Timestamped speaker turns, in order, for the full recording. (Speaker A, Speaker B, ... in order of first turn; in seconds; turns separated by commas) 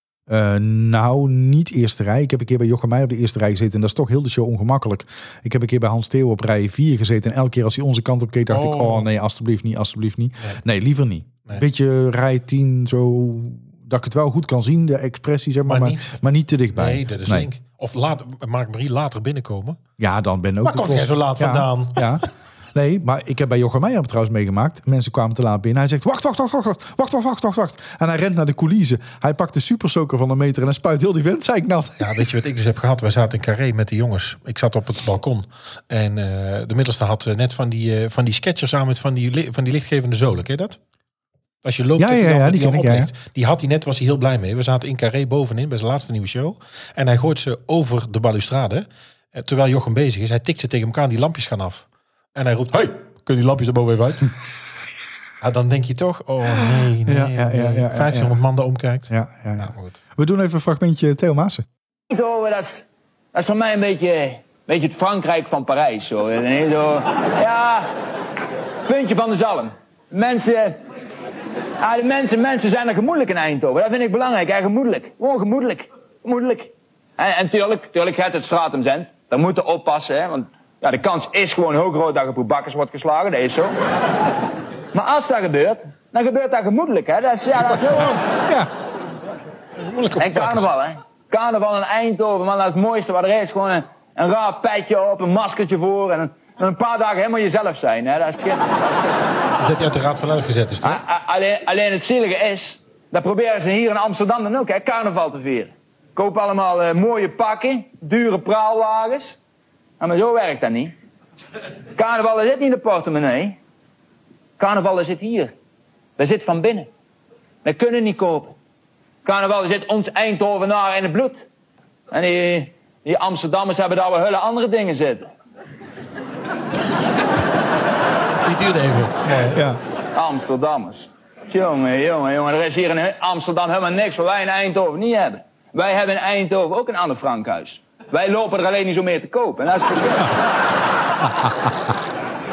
Speaker A: 0.3-17.5, Speaker B: 8.5-9.1, Speaker B: 15.7-16.2, Speaker B: 16.7-19.8, Speaker A: 20.0-32.3, Speaker B: 20.6-22.2, Speaker B: 32.0-40.8, Speaker B: 41.6-54.3, Speaker A: 42.0-43.1, Speaker B: 55.4-60.0, Speaker A: 56.7-58.4, Speaker A: 59.1-61.7, Speaker C: 62.1-67.9, Speaker C: 68.9-70.8, Speaker C: 71.8-83.8, Speaker C: 84.9-88.3, Speaker B: 87.9-88.2, Speaker B: 89.8-90.7, Speaker C: 90.2-99.1, Speaker B: 99.6-101.0, Speaker C: 100.8-109.4, Speaker C: 110.0-111.0, Speaker C: 112.0-113.6, Speaker C: 114.6-115.5, Speaker C: 116.2-116.9, Speaker C: 117.6-118.5, Speaker C: 119.2-121.5, Speaker C: 122.1-125.3, Speaker B: 128.4-129.6, Speaker A: 129.5-129.8, Speaker C: 130.2-140.4